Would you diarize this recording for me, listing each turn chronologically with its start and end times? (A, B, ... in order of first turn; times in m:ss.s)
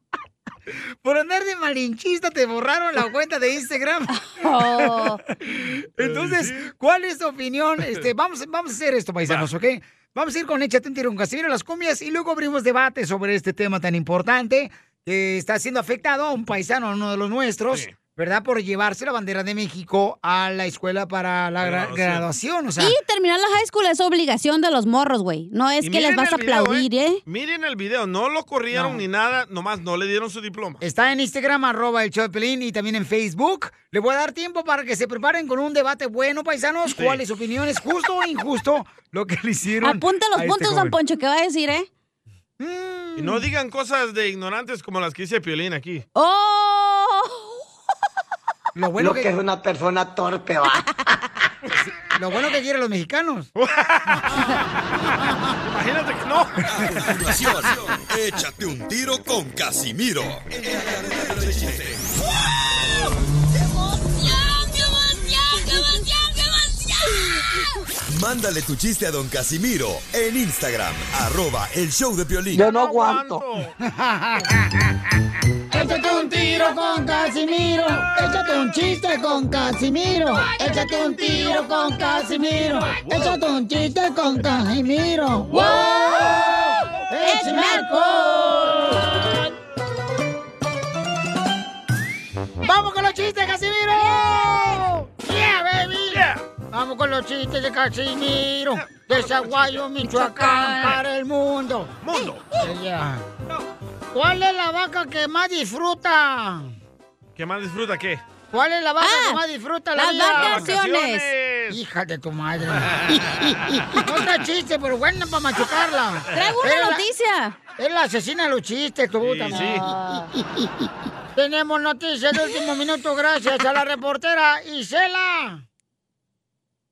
0:01.0-0:04.1 A
0:04.1-0:05.2 B
0:04.7-0:23.0 A
0:06.0-0:06.6 C
0:21.6-0:22.3 C
0:22.8-0:27.2 B
0:25.8-0:30.8 C
0:28.7-0:29.0 A
0:30.8-0:41.0 A
0:37.0-0:37.2 C
0:39.8-0:41.9 B
0:42.6-0:43.4 A
0:43.2-0:46.0 C
0:46.2-0:47.6 B
0:48.8-0:49.4 A
0:49.0-0:50.9 D
0:51.8-0:53.5 A
0:53.6-0:54.6 C
0:55.6-0:57.0 C
0:56.7-1:02.0 E
0:56.8-0:57.8 A
1:08.1-1:12.7 E
1:12.6-1:13.4 D
1:12.6-1:13.8 C
1:13.8-1:14.6 A
1:15.7-1:29.3 A
1:20.7-1:21.6 C
1:22.8-1:23.4 C
1:25.5-1:26.3 B
1:25.6-1:26.2 C
1:27.2-1:28.8 B
1:32.6-1:41.9 A
1:34.0-1:34.5 B
1:36.1-1:36.4 C
1:38.8-1:39.8 C
1:40.0-1:41.0 B
1:42.0-1:42.4 C
1:42.6-1:43.3 A
1:44.1-1:46.7 A
1:47.4-1:48.2 C
1:48.5-1:50.7 A
1:49.0-1:49.4 B
1:50.0-1:51.3 B
1:50.4-1:51.8 C
1:51.7-1:57.1 A
1:53.0-1:53.4 C
1:56.3-1:57.6 B
1:57.8-2:05.6 A
1:59.2-1:59.9 C